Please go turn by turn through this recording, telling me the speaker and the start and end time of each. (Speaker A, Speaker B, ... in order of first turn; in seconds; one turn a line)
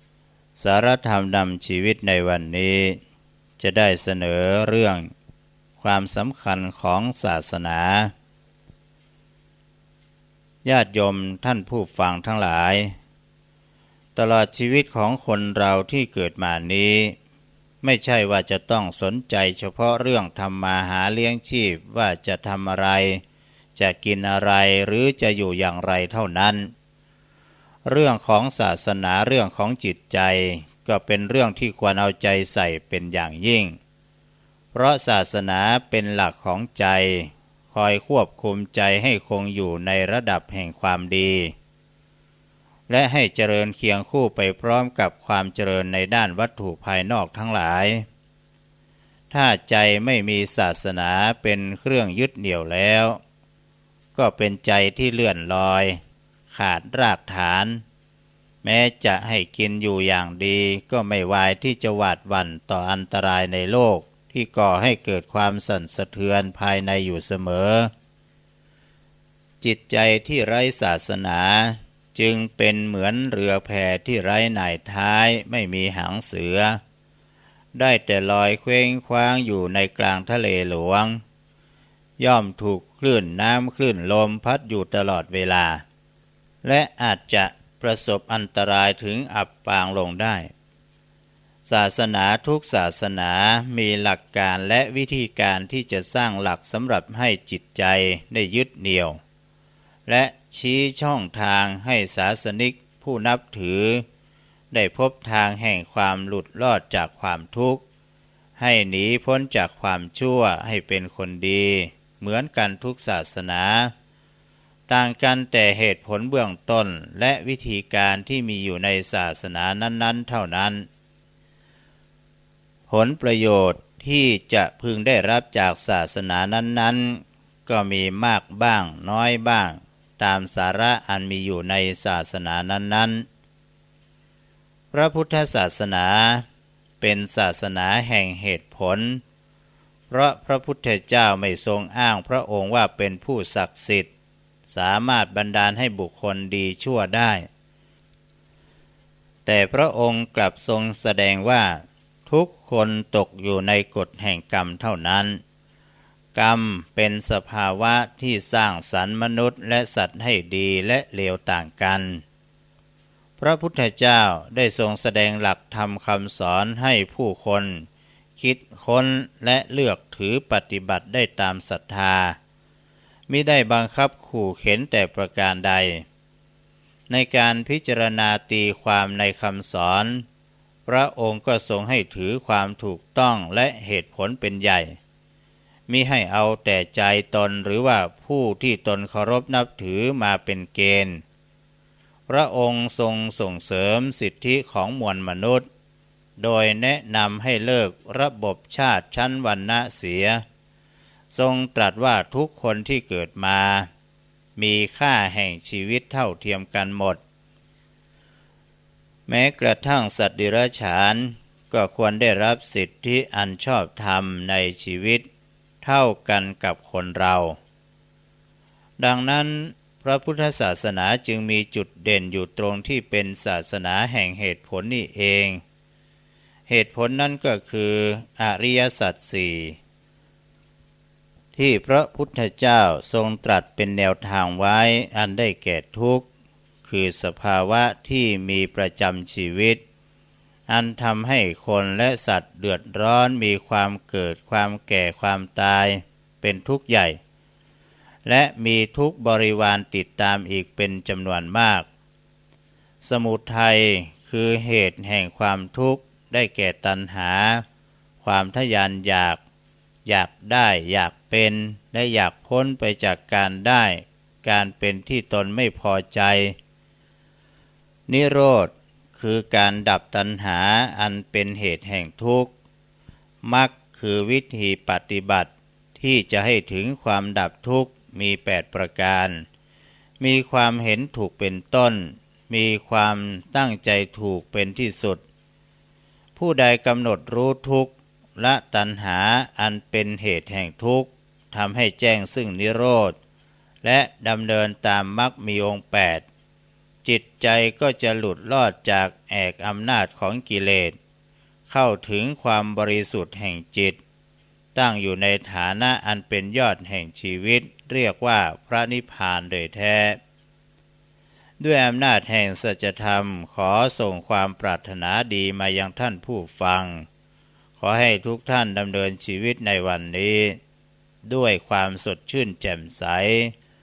Speaker A: 0.6-3.0
Speaker A: 3.6-5.1
Speaker A: 5.8-8.1
Speaker A: 10.6-12.9
Speaker A: 14.2-17.1
Speaker A: 17.8-23.2
Speaker A: 23.8-26.7
Speaker A: 27.9-33.8
Speaker A: 34.7-41.5
Speaker A: 42.9-48.0
Speaker A: 49.3-53.2
Speaker A: 54.1-56.0
Speaker A: 56.5-57.8
Speaker A: 58.6-67.9
Speaker A: 69.6-76.8
Speaker A: 77.7-81.2
Speaker A: 82.2-85.8
Speaker A: 86.6-90.5
Speaker A: 91.7-99.2
Speaker A: 100.1-104.0
Speaker A: 104.7-107.8
Speaker A: 108.6-113.9
Speaker A: 114.9-120.9
Speaker A: 122.9-133.2
Speaker A: 134.9-136.4
Speaker A: 137.0-139.2
Speaker A: 140.1-144.1
Speaker A: 144.7-147.5
Speaker A: 149.4-155.4
Speaker A: 156.3-162.2
Speaker A: 163.4-167.8
Speaker A: 168.4-172.3
Speaker A: 173.3-176.0
Speaker A: 177.1-180.2
Speaker A: 180.9-185.0
Speaker A: 185.9-191.2
Speaker A: 192.3-195.7
Speaker A: 196.4-200.4
Speaker A: 201.3-203.9
Speaker A: 204.6-207.2
Speaker A: 209.3-215.2
Speaker A: 215.8-217.6
Speaker A: 219.0-225.6
Speaker A: 226.7-229.8
Speaker A: 231.5-236.3
Speaker A: 236.8-239.8
Speaker A: 240.7-247.2
Speaker A: 248.2-251.8
Speaker A: 253.0-257.6
Speaker A: 258.2-259.4
Speaker A: 260.1-266.6
Speaker A: 268.1-272.5
Speaker A: 273.4-279.4
Speaker A: 280.2-285.2
Speaker A: 286.4-293.1
Speaker A: 293.8-296.2
Speaker A: 297.0-300.9
Speaker A: 301.7-304.0
Speaker A: 304.7-310.2
Speaker A: 311.6-317.1
Speaker A: 317.8-320.6
Speaker A: 321.2-323.5